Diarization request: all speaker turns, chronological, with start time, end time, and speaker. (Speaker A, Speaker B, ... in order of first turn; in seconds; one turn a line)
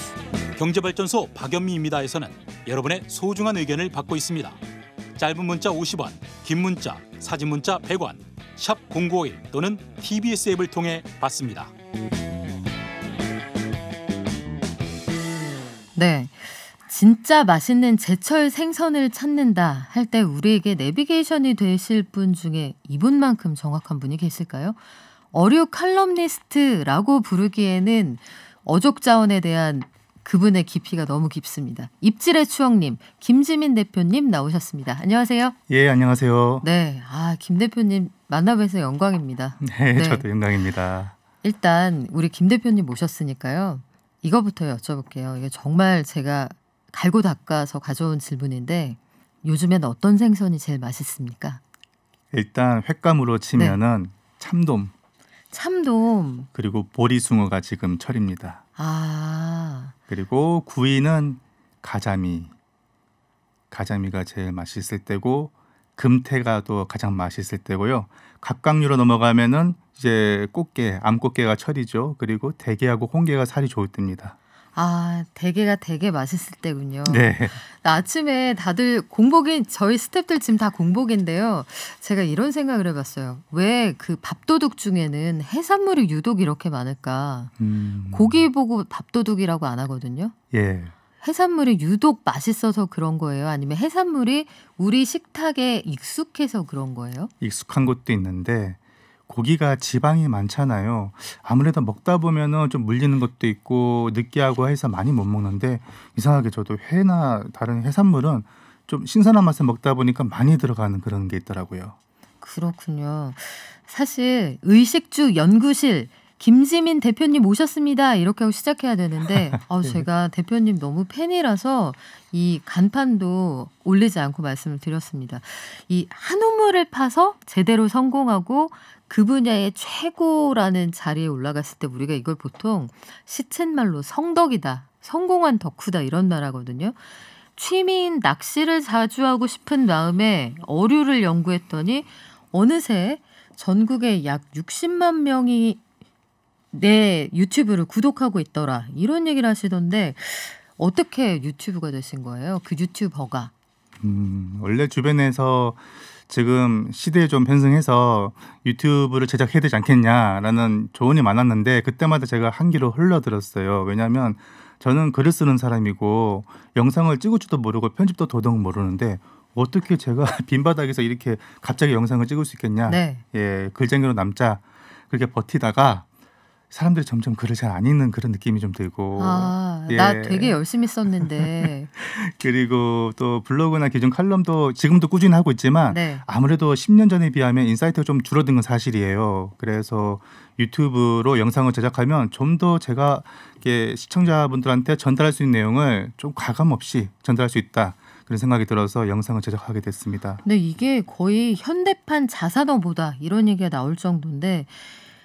Speaker A: 0.6-4.6
Speaker A: 5.2-11.7
Speaker B: 16.0-24.8
Speaker B: 25.3-35.5
Speaker C: 35.7-36.6
Speaker B: 36.6-40.3
Speaker C: 39.6-41.1
Speaker B: 41.4-51.6
Speaker C: 52.3-54.9
Speaker B: 55.5-56.5
Speaker C: 56.5-58.6
Speaker B: 58.8-60.0
Speaker C: 60.1-62.5
Speaker C: 63.7-74.3
Speaker B: 74.8-87.5
Speaker C: 77.1-77.6
Speaker C: 87.6-88.5
Speaker B: 88.1-90.3
Speaker C: 90.5-90.9
Speaker B: 91.2-97.3
Speaker C: 97.4-112.0
Speaker B: 112.4-137.0
Speaker C: 119.3-120.0
Speaker B: 137.6-145.8
Speaker B: 146.7-153.5
Speaker C: 154.0-176.1
Speaker B: 172.9-173.2
Speaker C: 176.7-200.4
Speaker B: 179.2-181.9
Speaker B: 185.9-186.2
Speaker B: 200.4-204.9